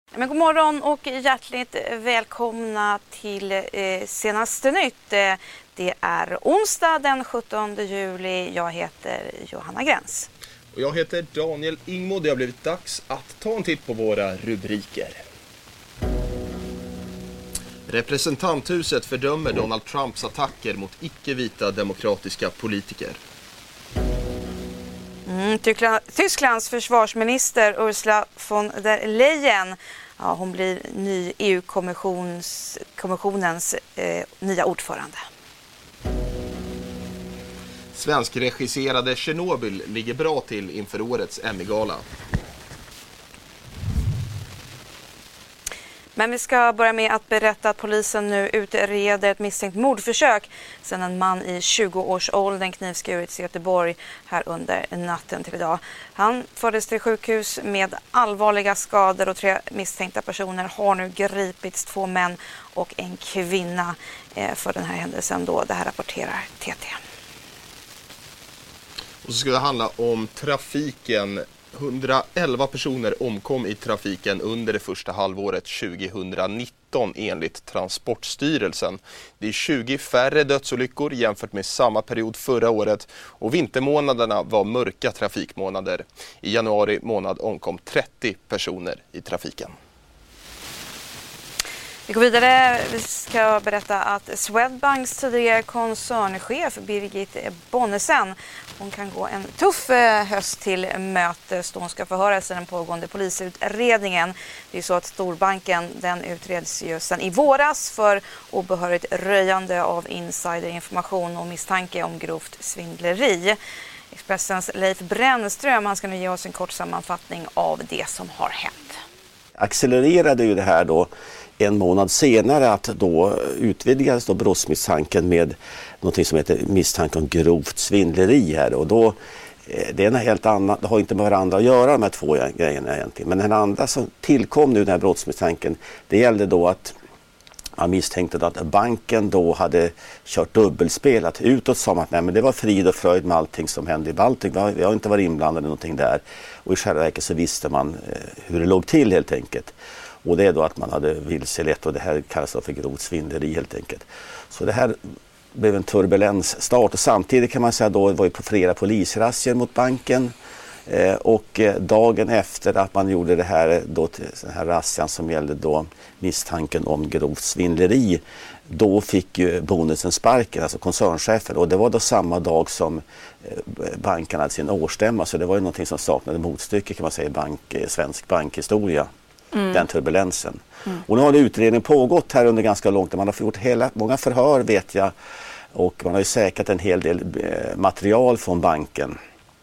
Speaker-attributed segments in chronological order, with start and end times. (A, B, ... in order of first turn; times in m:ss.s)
0:00.1-0:10.3 A
0:10.7-0:15.2 B
0:17.9-0:23.2 B
0:25.2-0:35.2 A
0:37.9-0:42.0 B
0:46.2-1:07.0 A
1:09.2-1:29.7 B
1:32.1-1:53.6 A
1:54.1-1:59.0 A
1:59.6-2:17.0 C
2:17.8-2:35.0 C
2:35.5-2:40.3 C
2:40.9-2:59.1 C
2:59.7-3:05.1 C
3:05.7-3:09.2 C